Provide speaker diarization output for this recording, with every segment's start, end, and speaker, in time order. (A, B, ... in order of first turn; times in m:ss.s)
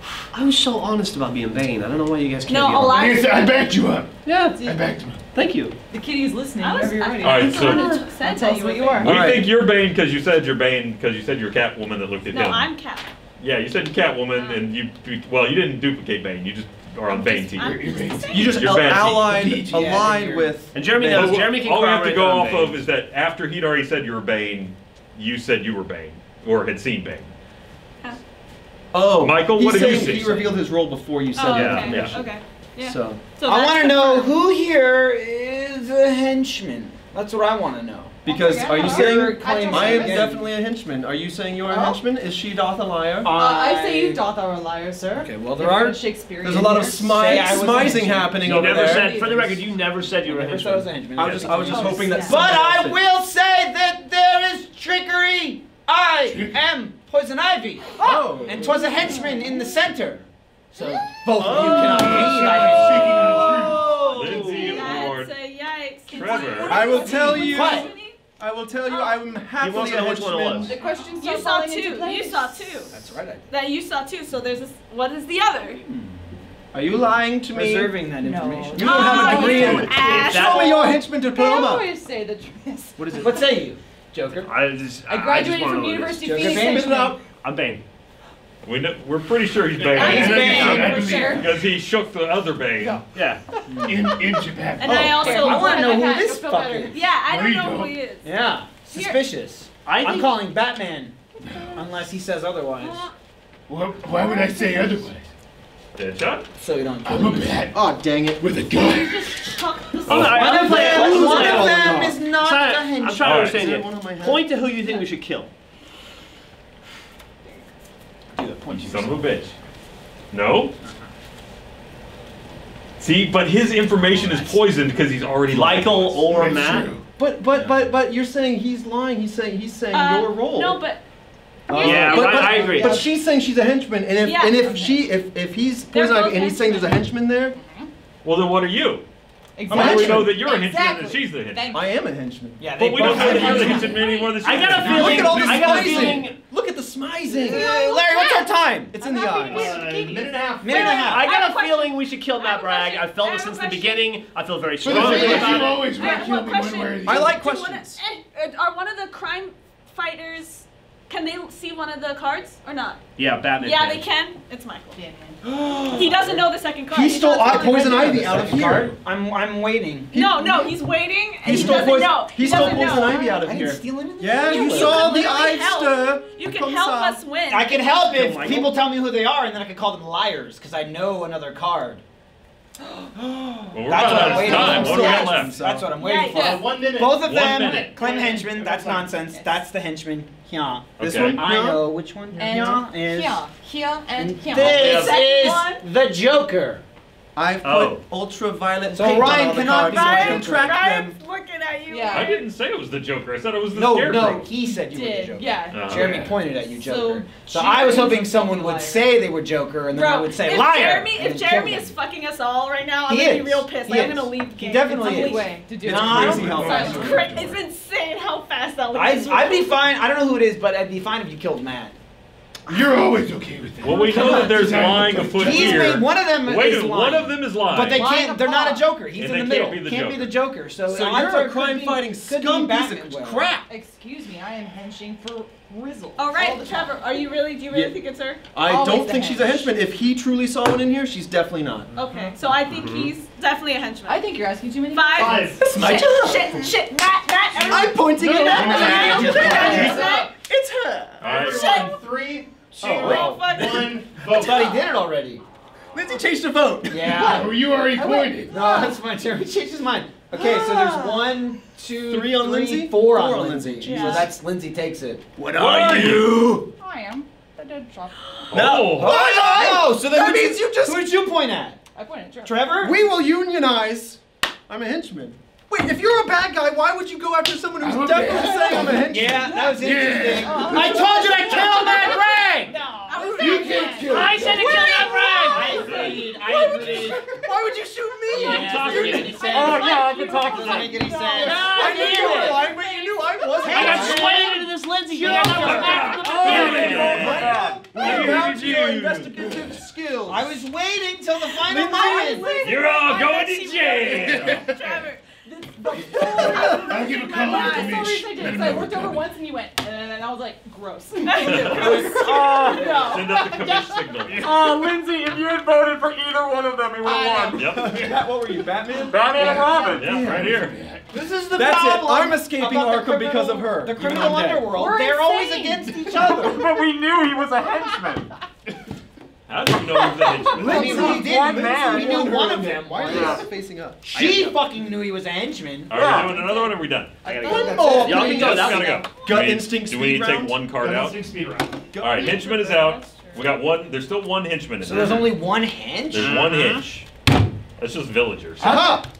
0:00.3-0:03.1 A
0:02.5-0:03.6 B
0:02.9-0:05.2 C
0:04.2-0:04.6 A
0:04.5-0:04.8 D
0:05.3-0:05.7 A
0:05.9-0:09.1 D
0:06.6-0:09.1 B
0:07.2-0:07.9 E
0:09.0-0:12.7 E
0:09.0-0:09.5 F
0:12.3-0:13.1 B
0:13.4-0:17.9 E
0:14.3-0:14.6 B
0:17.1-0:18.8 B
0:17.6-0:20.1 C
0:18.3-0:21.0 F
0:18.4-0:19.5 E
0:19.5-0:20.6 G
0:20.7-0:22.8 A
0:20.9-0:27.3 E
0:28.9-0:32.2 F
0:29.2-0:30.6 E
0:29.7-0:30.5 G
0:31.3-0:34.3 B
0:31.5-0:32.2 A
0:31.9-0:32.2 E
0:32.8-0:33.2 F
0:33.4-0:40.4 G
0:38.2-0:43.4 F
0:38.3-0:40.4 D
0:41.7-0:42.0 D
0:43.2-0:44.2 G
0:43.3-0:47.9 D
0:45.3-0:45.6 G
0:45.5-0:49.1 F
0:47.1-1:04.5 G
0:48.4-0:51.0 A
0:48.5-0:49.6 D
0:51.2-0:53.0 F
0:51.2-0:51.6 E
0:51.6-0:52.5 D
0:56.2-0:56.6 C
0:58.0-0:59.0 F
0:58.0-0:59.4 D
1:01.4-1:02.5 F
1:01.4-1:02.1 A
1:01.4-1:04.0 C
1:02.5-1:05.3 E
1:03.3-1:04.9 A
1:04.4-1:08.2 B
1:06.1-1:06.8 E
1:06.1-1:07.9 D
1:06.7-1:10.7 F
1:06.9-1:07.9 G
1:08.9-1:09.2 B
1:09.6-1:10.7 A
1:10.6-1:12.8 D
1:10.8-1:12.9 B
1:12.9-1:13.4 G
1:13.5-1:15.8 B
1:15.9-1:16.5 G
1:16.7-1:18.0 F
1:17.5-1:19.7 G
1:18.2-1:20.2 D
1:18.7-1:21.9 F
1:18.8-1:21.0 B
1:20.0-1:21.0 A
1:21.2-1:23.5 D
1:23.0-1:23.4 F
1:23.1-1:24.5 G
1:24.4-1:27.8 A
1:25.1-1:27.2 D
1:26.2-1:27.1 G
1:26.5-1:27.2 F
1:28.6-1:30.7 E
1:29.8-1:31.4 B
1:29.8-1:31.6 C
1:30.0-1:31.0 G
1:30.5-1:31.5 D
1:31.3-1:33.1 E
1:32.8-1:37.1 D
1:33.1-1:33.4 A
1:33.7-1:34.1 G
1:33.8-1:35.4 C
1:34.8-1:36.3 B
1:35.2-1:37.0 G
1:36.9-1:38.2 B
1:37.3-1:38.0 C
1:38.2-1:41.2 G
1:38.9-1:39.2 D
1:39.8-1:40.4 A
1:41.4-1:41.8 C
1:41.7-1:43.0 G
1:42.8-1:43.1 B
1:43.7-1:45.3 C
1:44.2-1:45.1 B
1:44.2-1:44.8 D
1:46.0-1:46.5 E
1:46.6-1:47.6 G
1:47.0-1:47.8 C
1:47.7-1:48.5 F
1:48.4-1:49.5 C
1:48.7-1:51.4 D
1:49.4-1:51.3 B
1:50.1-1:50.6 E
1:50.1-1:55.5 A
1:50.2-1:53.3 G
1:50.5-1:52.2 F
1:53.2-1:53.7 E
1:53.3-1:54.5 F
1:58.3-1:59.4 G
1:58.7-1:59.5 E
2:00.3-2:00.7 E
2:03.0-2:06.3 E
2:03.9-2:04.6 G
2:05.5-2:06.9 A
2:06.2-2:07.0 C
2:07.2-2:10.8 F
2:07.5-2:07.8 G
2:09.9-2:11.0 B
2:11.7-2:17.6 F
2:11.7-2:12.5 B
2:11.7-2:13.1 D
2:11.8-2:13.1 A
2:14.2-2:14.7 B
2:14.5-2:15.1 D
2:15.9-2:17.0 B
2:17.5-2:17.9 D
2:18.2-2:19.0 E
2:19.6-2:22.0 D
2:19.7-2:20.4 F
2:19.7-2:20.0 A
2:19.8-2:21.7 E
2:21.7-2:24.1 F
2:22.6-2:24.0 G
2:22.7-2:25.4 E
2:23.0-2:23.9 C
2:23.7-2:24.6 B
2:24.4-2:26.4 A
2:24.5-2:26.3 C
2:24.6-2:27.7 F
2:27.3-2:30.5 D
2:27.4-2:29.0 G
2:28.9-2:29.8 F
2:29.5-2:31.2 H
2:30.6-2:31.3 G
2:30.7-2:34.1 B
2:30.9-2:35.9 A
2:34.8-2:37.3 C
2:34.9-2:35.8 F
2:35.0-2:43.0 B
2:36.0-2:36.3 D
2:37.0-2:38.0 F
2:43.2-2:44.0 A
2:43.6-2:45.0 B
2:45.0-2:45.4 D
2:45.4-2:48.9 F
2:45.9-2:48.4 B
2:47.4-2:50.2 G
2:50.1-2:50.7 F
2:50.1-2:53.2 B
2:51.4-2:57.2 F
2:51.5-2:55.2 G
2:53.1-2:53.4 D
2:54.4-2:58.0 B
2:57.5-3:02.0 G
2:58.1-2:58.8 A
3:03.1-3:05.9 F
3:03.7-3:05.6 E
3:03.9-3:13.4 G
3:06.0-3:06.6 B
3:06.2-3:06.7 D
3:06.4-3:09.1 H
3:07.1-3:08.0 E
3:09.2-3:09.6 D
3:11.0-3:11.4 E
3:11.0-3:12.8 F
3:12.4-3:15.1 D
3:14.3-3:16.8 G
3:14.5-3:15.2 E
3:14.6-3:15.8 B
3:17.4-3:21.2 F
3:17.6-3:18.0 E
3:18.9-3:20.8 G
3:19.4-3:22.4 B
3:21.9-3:22.4 D
3:22.1-3:24.5 E
3:23.7-3:31.9 G
3:24.6-3:29.1 D
3:25.7-3:26.3 E
3:29.9-3:35.6 B
3:33.1-3:37.0 G
3:34.9-3:37.2 D
3:35.8-3:37.2 F
3:35.9-3:37.6 C
3:36.8-3:39.8 B
3:38.9-3:41.9 G
3:42.7-3:46.0 C
3:43.8-3:48.1 E
3:43.9-3:44.5 D
3:44.0-3:45.2 F
3:45.1-3:53.6 G
3:47.9-3:48.9 D
3:49.1-3:50.3 E
3:50.9-3:53.6 F
3:53.7-3:57.4 D
3:56.2-3:58.4 B
3:58.6-4:01.9 F
3:58.6-3:59.7 D
4:01.9-4:04.4 B
4:02.1-4:02.4 D
4:02.7-4:03.1 A
4:04.1-4:06.7 D
4:04.9-4:10.3 B
4:05.2-4:05.6 H
4:05.7-4:06.5 G
4:05.9-4:06.4 F
4:07.5-4:10.0 F
4:08.1-4:10.0 C
4:08.6-4:10.3 D
4:09.1-4:10.1 G
4:11.2-4:14.8 H
4:11.2-4:11.9 E
4:11.4-4:12.0 B
4:12.8-4:14.5 F
4:13.0-4:13.9 B
4:13.0-4:15.4 G
4:15.9-4:17.5 F
4:16.9-4:17.6 G
4:17.2-4:18.6 C
4:17.8-4:19.0 D
4:18.4-4:25.2 G
4:20.3-4:24.3 F
4:23.8-4:24.3 B
4:25.4-4:26.3 C
4:25.5-4:26.7 F
4:25.6-4:26.4 E
4:26.7-4:28.8 D
4:28.5-4:29.2 E
4:28.5-4:31.1 F
4:28.9-4:31.8 G
4:31.9-4:32.8 D
4:32.4-4:33.0 G
4:32.8-4:39.6 F
4:37.8-4:42.0 C
4:39.0-4:42.7 G
4:40.3-4:47.0 D
4:43.1-4:44.2 B
4:43.4-4:45.1 C
4:44.1-4:46.9 A
4:44.2-4:49.9 F
4:44.8-4:47.2 G
4:45.7-4:46.2 E
4:48.3-4:52.5 G
4:48.4-4:49.7 E
4:49.3-4:51.0 I
4:49.5-4:50.7 B
4:50.8-4:53.9 D
4:50.9-4:54.5 F
4:51.4-4:52.7 A
4:53.6-4:57.6 G
4:53.6-4:56.3 A
4:55.4-4:59.3 E
4:56.0-5:00.6 F
4:56.2-4:57.9 I
4:56.5-4:57.3 C
4:57.9-4:59.8 C
5:00.3-5:02.7 G
5:01.6-5:02.7 F
5:02.5-5:08.2 B
5:02.6-5:04.6 E
5:04.1-5:04.9 C
5:05.8-5:14.2 D
5:06.2-5:09.3 C
5:06.5-5:06.7 F
5:11.2-5:13.3 B
5:11.4-5:12.1 E
5:12.1-5:13.1 I
5:13.0-5:14.5 E
5:14.3-5:14.9 C
5:14.4-5:17.7 I
5:17.0-5:17.8 D
5:17.5-5:17.9 E
5:17.7-5:20.6 F
5:17.9-5:18.3 C
5:19.1-5:20.2 I
5:19.3-5:21.1 C
5:20.0-5:20.7 E
5:21.1-5:26.6 G
5:21.5-5:24.7 F
5:24.7-5:26.4 D
5:26.2-5:28.3 I
5:29.5-5:31.1 E
5:29.9-5:30.5 D
5:30.5-5:33.5 G
5:30.5-5:34.5 F
5:30.6-5:31.3 C
5:30.7-5:32.2 I
5:32.0-5:33.2 C
5:33.1-5:33.5 I
5:34.1-5:36.3 G
5:35.9-5:37.2 E
5:35.9-5:36.6 I
5:37.2-5:39.0 D
5:37.2-5:39.1 A
5:37.4-5:39.0 G
5:37.4-5:40.6 F
5:38.5-5:41.2 E
5:40.7-5:41.9 H
5:41.9-5:42.5 F
5:42.0-5:45.4 E
5:42.2-5:43.4 B
5:44.8-5:46.7 G
5:46.1-5:47.0 E
5:46.1-5:46.9 I
5:47.8-5:48.9 E
5:48.6-5:49.0 G